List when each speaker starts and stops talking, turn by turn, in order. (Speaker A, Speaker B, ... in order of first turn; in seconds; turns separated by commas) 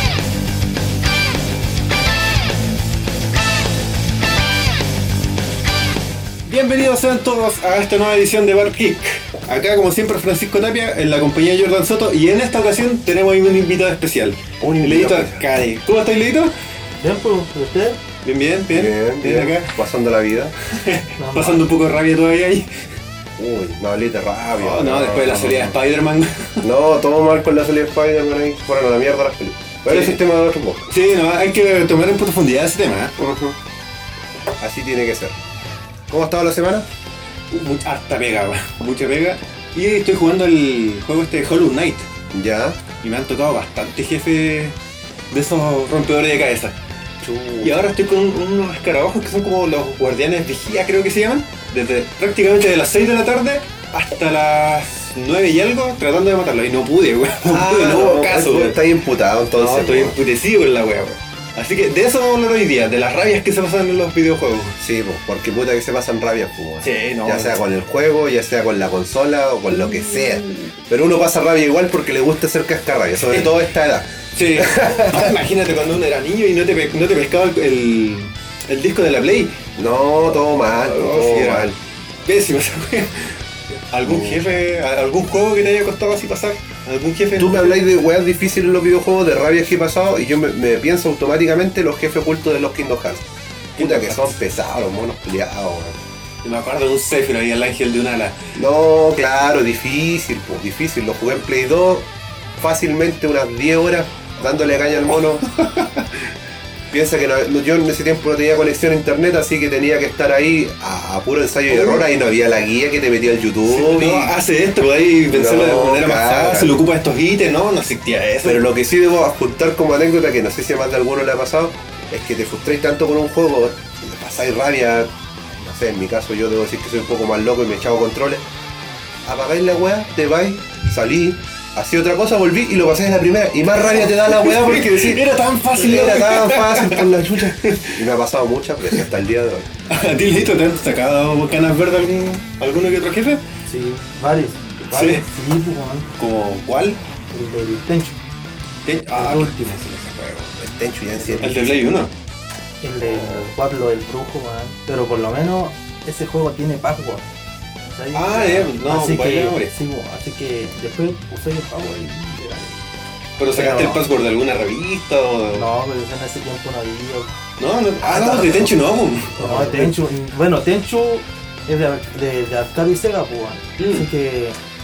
Speaker A: 6.5-16.5, Speaker B: 14.6-15.4, Speaker C: 17.0-18.0, Speaker A: 18.2-19.8, Speaker B: 18.7-20.6, Speaker A: 20.7-22.7, Speaker C: 21.2-21.7, Speaker B: 23.4-25.8, Speaker A: 24.6-26.7, Speaker B: 26.6-30.9, Speaker A: 29.9-30.2, Speaker A: 30.9-33.1, Speaker B: 33.2-33.6, Speaker B: 34.6-35.4, Speaker B: 36.1-36.9, Speaker A: 37.5-42.1, Speaker B: 42.3-42.8, Speaker A: 43.0-44.8, Speaker A: 45.3-46.8, Speaker B: 47.2-47.8, Speaker A: 47.6-58.8, Speaker B: 57.4-60.2, Speaker A: 59.5-64.8, Speaker B: 64.8-75.3, Speaker A: 66.8-67.6, Speaker A: 69.7-70.7, Speaker A: 73.3-73.5, Speaker A: 74.3-79.6, Speaker B: 79.8-81.8, Speaker A: 80.7-81.7, Speaker A: 82.3-87.8, Speaker B: 84.0-84.5, Speaker B: 87.4-93.3, Speaker A: 93.8-94.4, Speaker B: 93.8-96.0, Speaker A: 96.4-98.4, Speaker B: 98.5-105.5, Speaker A: 105.5-106.2, Speaker B: 106.9-114.3, Speaker A: 111.7-112.1, Speaker A: 113.6-118.7, Speaker B: 115.3-116.8, Speaker B: 118.4-128.4, Speaker B: 129.2-139.7, Speaker A: 133.8-138.1, Speaker A: 139.9-143.4, Speaker C: 143.7-146.1, Speaker A: 144.9-145.2, Speaker A: 146.2-147.0, Speaker C: 147.3-148.2, Speaker A: 148.8-150.5, Speaker C: 149.1-149.6, Speaker B: 150.5-152.0, Speaker C: 151.2-151.4, Speaker A: 151.4-152.1, Speaker C: 152.8-157.3, Speaker A: 153.2-153.4, Speaker C: 157.8-162.8, Speaker A: 158.1-159.7, Speaker A: 163.4-165.7, Speaker C: 163.5-164.0, Speaker C: 165.5-167.3, Speaker A: 167.6-169.9, Speaker C: 168.0-168.7, Speaker C: 169.4-174.6, Speaker A: 173.8-174.1